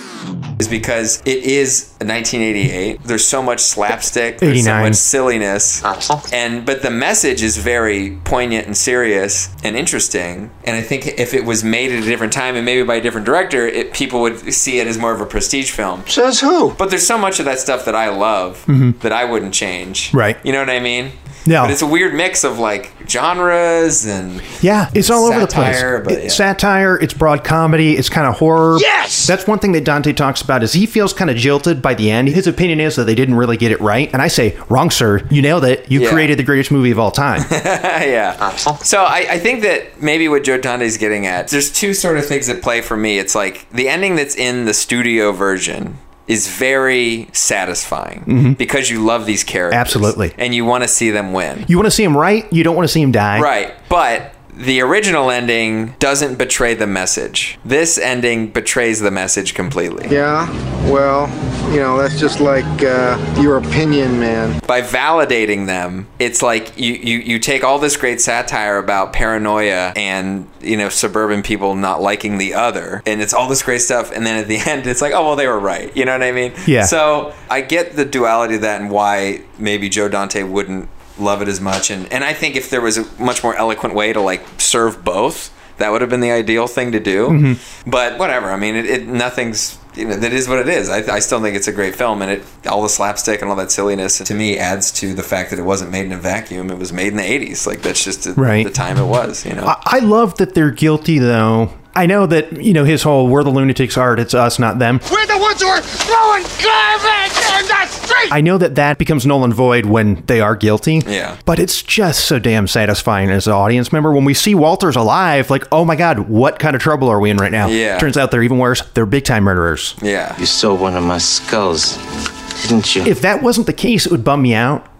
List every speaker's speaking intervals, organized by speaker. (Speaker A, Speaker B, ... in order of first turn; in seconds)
Speaker A: 0.6-16.1, 16.8-26.4, 35.9-36.3, 37.4-51.7, 53.3-60.1, 64.7-99.7, 111.0-111.4, 117.6-118.1, 120.0-120.4
Speaker B: 4.4-5.0, 18.7-19.0, 20.1-20.4, 21.4-21.8, 24.6-37.5, 48.3-48.6, 49.7-50.3, 51.7-53.5, 76.7-76.9, 87.3-87.6, 98.3-98.7, 99.6-105.0, 108.3-120.0, 123.0-124.8
Speaker C: 5.9-6.2, 16.1-16.8, 28.7-29.3, 38.4-38.7, 105.1-108.3
Speaker D: 60.1-64.6
Speaker E: 120.4-122.0, 122.6-123.1